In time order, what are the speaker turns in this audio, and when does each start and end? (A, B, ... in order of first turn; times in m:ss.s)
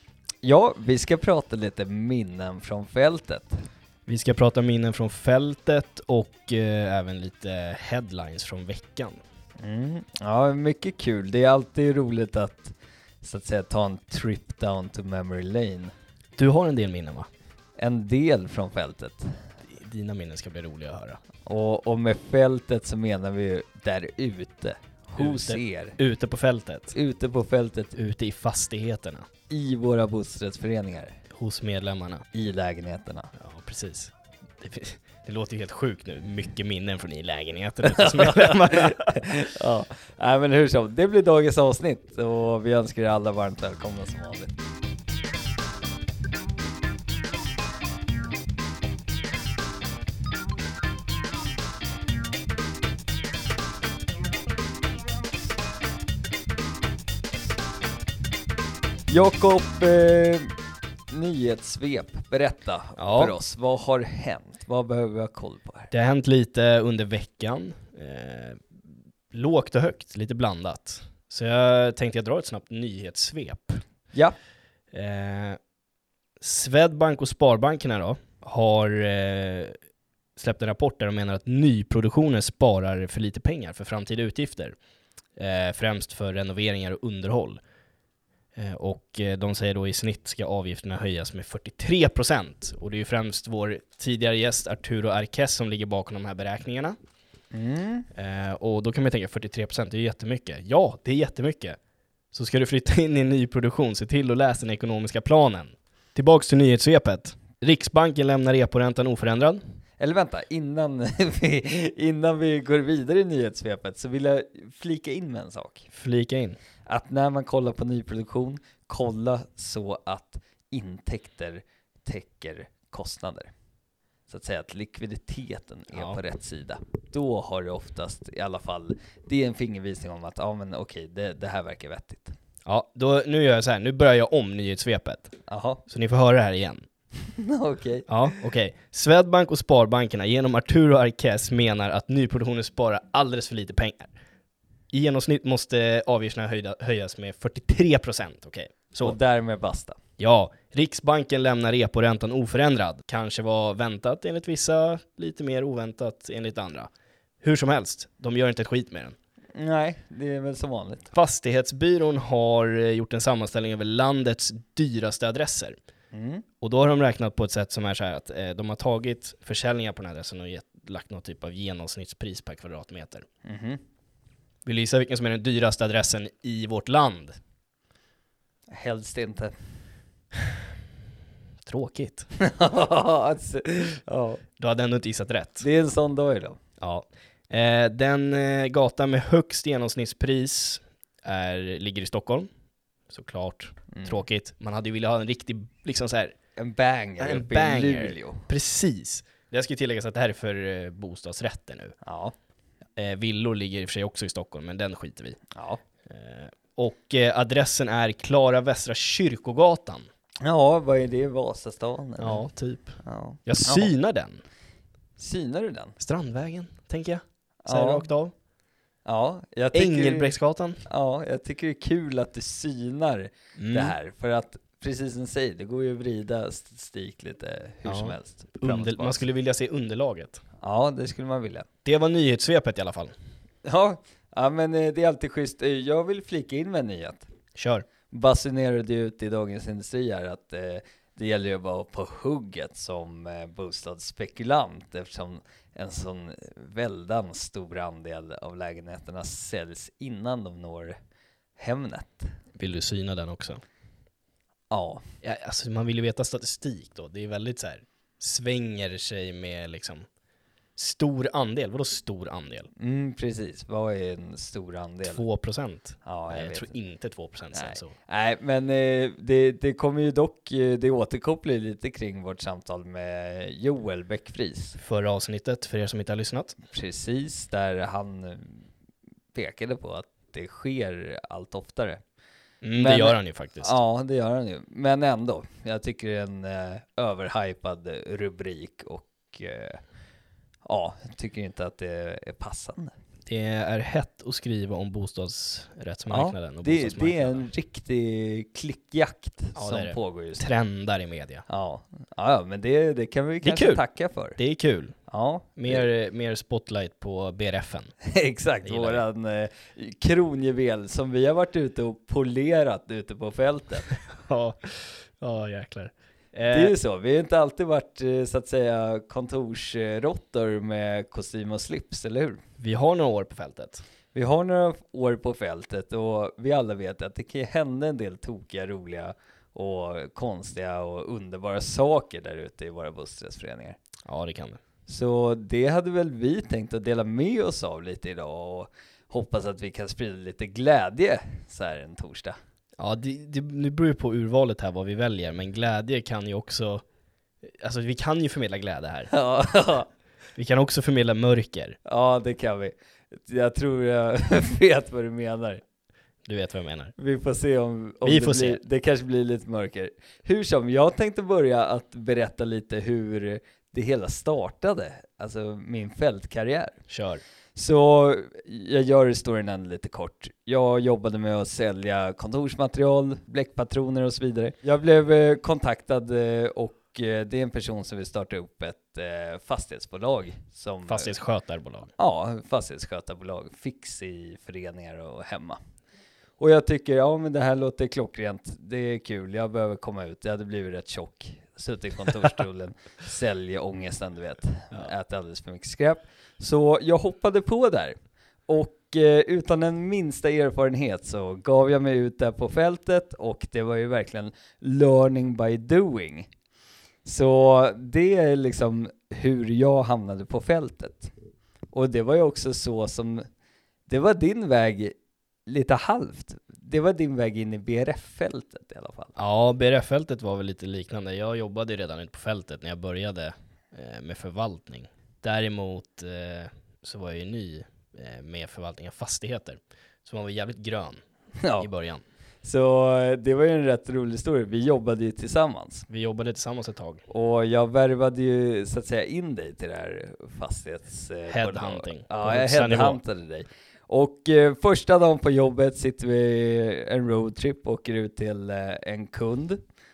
0:00.4-0:03.6 A
0:04.1-0:09.2 B
0:09.6-0:15.9 A
0:16.4-0:17.3 B
0:17.8-0:19.4 A
0:19.6-0:21.2 B
0:21.4-0:26.0 A
0:25.2-0:26.9 B
0:26.9-0:27.9 A
0:27.9-0:29.3 B
0:29.5-0:31.2 A
0:31.3-0:32.2 B
0:32.3-0:33.3 A
0:33.3-0:39.2 B
0:37.8-0:44.5 A
0:59.1-1:00.5 A
1:01.1-1:05.9 A
1:03.0-1:03.3 B
1:05.9-1:08.8 B
1:09.3-1:13.8 B
1:14.9-1:15.6 B
1:16.4-1:19.8 B
1:20.4-1:24.7 B
1:25.4-1:27.6 B
1:28.5-1:37.0 B
1:37.5-1:38.1 A
1:38.1-1:41.8 B
1:42.3-1:49.6 B
1:50.0-1:55.9 A
1:55.9-1:56.6 B
1:56.9-2:03.5 A
2:04.3-2:12.3 A
2:05.9-2:06.2 B
2:12.6-2:15.3 B
2:15.5-2:15.8 A
2:15.9-2:16.8 B
2:17.2-2:18.3 A
2:18.1-2:24.1 B
2:24.9-2:29.2 B
2:29.0-2:30.0 A
2:30.2-2:36.9 B
2:37.4-2:39.2 B
2:39.6-2:41.1 A
2:41.1-2:45.8 B
2:46.1-2:46.4 A
2:46.6-2:53.2 B
2:53.4-2:53.8 A
2:54.6-2:57.4 B
2:58.7-2:59.5 A
3:01.6-3:02.3 B
3:02.4-3:04.4 A
3:04.6-3:05.6 B
3:05.6-3:06.6 A
3:06.8-3:12.5 B
3:13.1-3:16.3 B
3:13.9-3:14.2 A
3:16.6-3:18.5 A
3:17.2-3:21.9 B
3:22.0-3:22.3 A
3:23.0-3:25.4 B
3:25.5-3:25.8 A
3:26.0-3:30.1 B
3:30.4-3:32.4 A
3:32.2-3:34.4 B
3:33.0-3:33.9 A
3:35.2-3:36.0 A
3:36.0-3:38.3 B
3:37.6-3:38.0 A
3:39.0-3:40.3 A
3:39.7-3:40.8 B
3:40.8-3:49.2 A
3:43.6-3:44.0 B
3:47.9-3:50.4 B
3:50.6-3:51.7 A
3:51.8-3:53.1 B
3:53.6-3:57.3 A
3:57.6-3:57.9 B
3:58.1-4:11.0 A
4:11.6-4:12.3 A
4:12.6-4:13.6 B
4:14.7-4:15.0 A
4:15.2-4:20.1 B
4:20.8-4:22.7 B
4:22.8-4:25.2 A
4:25.0-4:27.9 B
4:26.0-4:26.7 A
4:27.5-4:34.8 A
4:34.8-4:36.5 B
4:36.7-4:38.6 A
4:39.3-4:42.0 A
4:42.6-4:43.7 B
4:42.8-4:49.8 A
4:50.6-4:52.9 A
4:53.2-4:57.5 B
4:56.1-5:00.4 A
4:59.6-5:01.4 B
5:01.5-5:04.4 A
5:03.4-5:03.8 B
5:04.4-5:04.9 B
5:05.1-5:05.8 A
5:05.6-5:07.9 B
5:08.0-5:13.9 A
5:08.6-5:09.0 B
5:14.0-5:16.7 B
5:16.5-5:22.4 A
5:22.6-5:23.8 B
5:24.1-5:33.8 A
5:34.0-5:34.6 B
5:34.9-5:42.4 A
5:42.8-5:46.8 B
5:47.4-5:49.1 B
5:49.1-5:49.9 A
5:50.4-5:51.8 B
5:51.8-5:55.6 A
5:56.2-5:56.9 B
5:57.0-6:06.8 A
5:58.0-5:58.6 B
6:06.9-6:07.2 B
6:07.6-6:21.1 A
6:20.9-6:21.9 B
6:22.0-6:25.6 A
6:26.4-6:38.0 A
6:38.5-6:46.3 A
6:47.0-6:51.1 A
6:51.7-6:53.2 A
6:53.9-6:54.9 A
6:55.5-6:59.2 A
6:59.2-7:11.0 B
7:11.4-7:11.7 A
7:11.6-7:12.0 B
7:12.4-7:15.9 A
7:15.9-7:17.0 B
7:17.1-7:29.6 A
7:21.3-7:23.0 B